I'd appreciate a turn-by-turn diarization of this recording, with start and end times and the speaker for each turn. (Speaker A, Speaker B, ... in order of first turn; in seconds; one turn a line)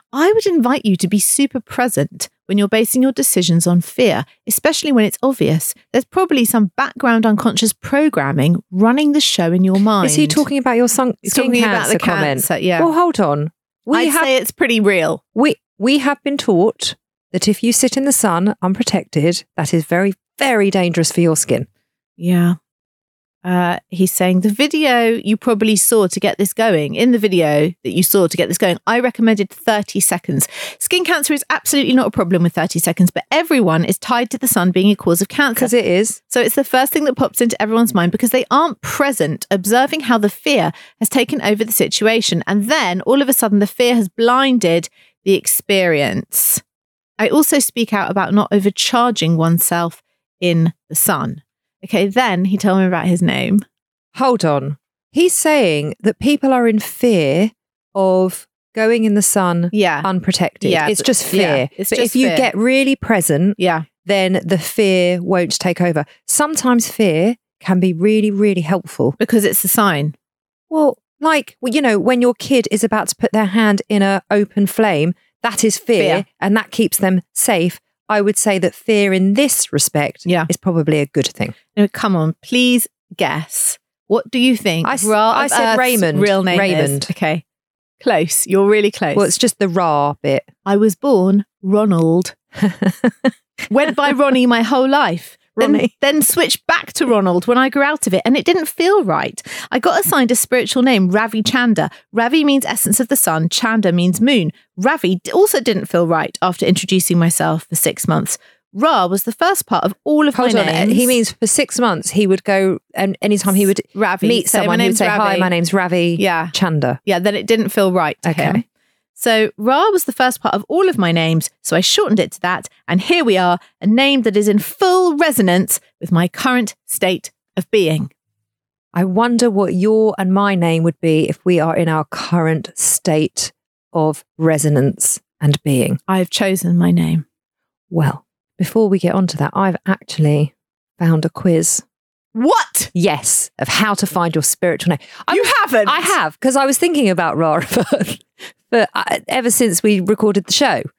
Speaker A: 0.1-10.4
Speaker B: 10.0-14.3
Speaker A: 11.2-12.9
Speaker A: 13.9-15.2
Speaker B: 15.3-21.7
Speaker A: 22.2-22.6
Speaker A: 23.4-35.7
Speaker B: 35.5-36.2
Speaker A: 36.3-46.6
Speaker A: 47.2-53.6
Speaker B: 54.1-69.2
Speaker A: 59.7-60.1
Speaker A: 60.6-62.5
Speaker A: 63.6-63.9
Speaker A: 69.2-70.1
Speaker B: 70.7-81.5
Speaker A: 76.0-76.2
Speaker A: 81.7-87.4
Speaker B: 84.8-87.1
Speaker A: 88.0-89.3
Speaker B: 89.1-90.5
Speaker A: 90.6-92.3
Speaker B: 92.6-93.3
Speaker A: 93.7-111.2
Speaker B: 95.6-95.9
Speaker B: 110.3-117.0
Speaker A: 113.9-115.5
Speaker A: 116.2-118.6
Speaker B: 118.2-118.6
Speaker A: 119.1-128.1
Speaker B: 128.9-136.0
Speaker A: 136.1-137.2
Speaker B: 137.9-141.8
Speaker A: 142.3-142.9
Speaker B: 142.9-150.8
Speaker A: 145.3-146.2